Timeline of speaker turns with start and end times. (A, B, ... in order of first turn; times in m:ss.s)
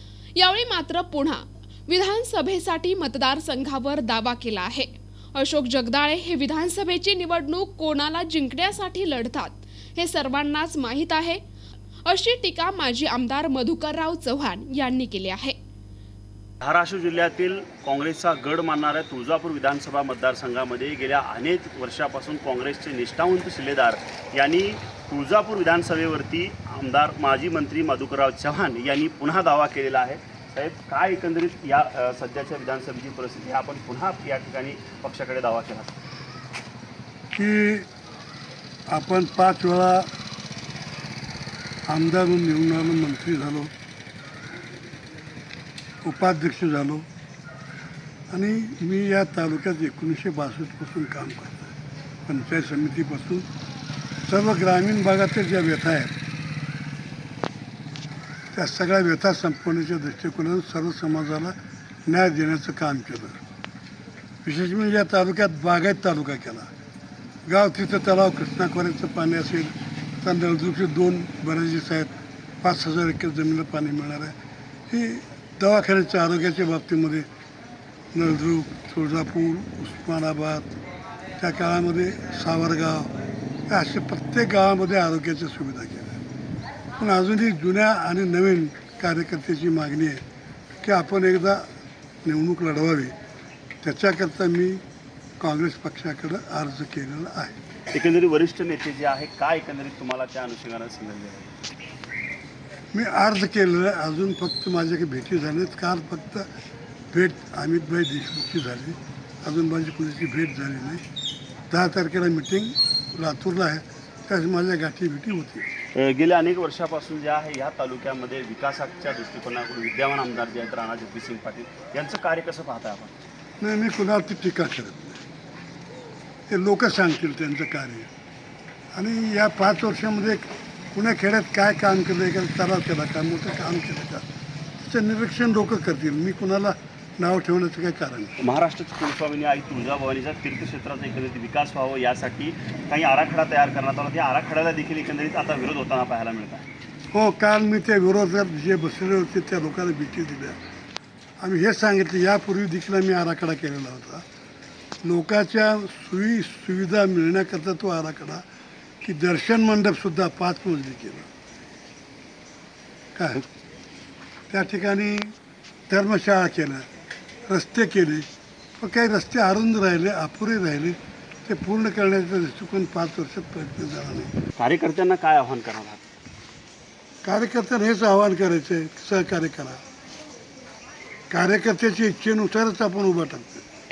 0:00.4-0:11.4 A
0:12.0-0:15.6 A
0:16.6-0:36.0 B
0:37.3-0:37.9 C
0:38.9-0:40.1 C
0:41.9-0:43.7 C
0:46.0-0:47.1 C
0:48.3-0:51.8 C
0:52.3-0:53.4 C
0:54.2-0:56.1 C
0:58.5-1:01.5 C
1:02.1-1:03.4 C
1:04.4-1:06.7 C
1:07.5-1:14.3 C
1:14.9-1:17.2 C
1:18.1-1:20.7 C
1:21.4-1:23.1 C
1:23.7-1:26.2 C
1:27.0-1:30.2 C
1:30.8-1:31.6 C
1:32.2-1:33.1 C
1:33.8-1:34.8 C
1:35.4-1:37.6 C
1:37.9-1:41.6 B
1:42.9-1:46.4 C
1:47.1-1:51.0 C
1:51.7-1:55.7 C
1:56.0-2:03.2 B
2:03.6-2:05.2 C
2:06.5-2:08.1 C
2:08.9-2:14.3 C
2:14.8-2:18.4 C
2:18.4-2:26.7 B
2:27.1-2:30.6 C
2:31.4-2:34.2 C
2:35.0-2:38.4 C
2:39.0-2:41.3 C
2:43.2-2:43.4 C
2:44.5-2:45.3 C
2:45.9-2:46.8 C
2:47.5-2:48.2 C
2:48.8-2:54.3 C
2:54.6-2:56.0 B
2:57.2-2:59.8 C
3:01.3-3:03.6 C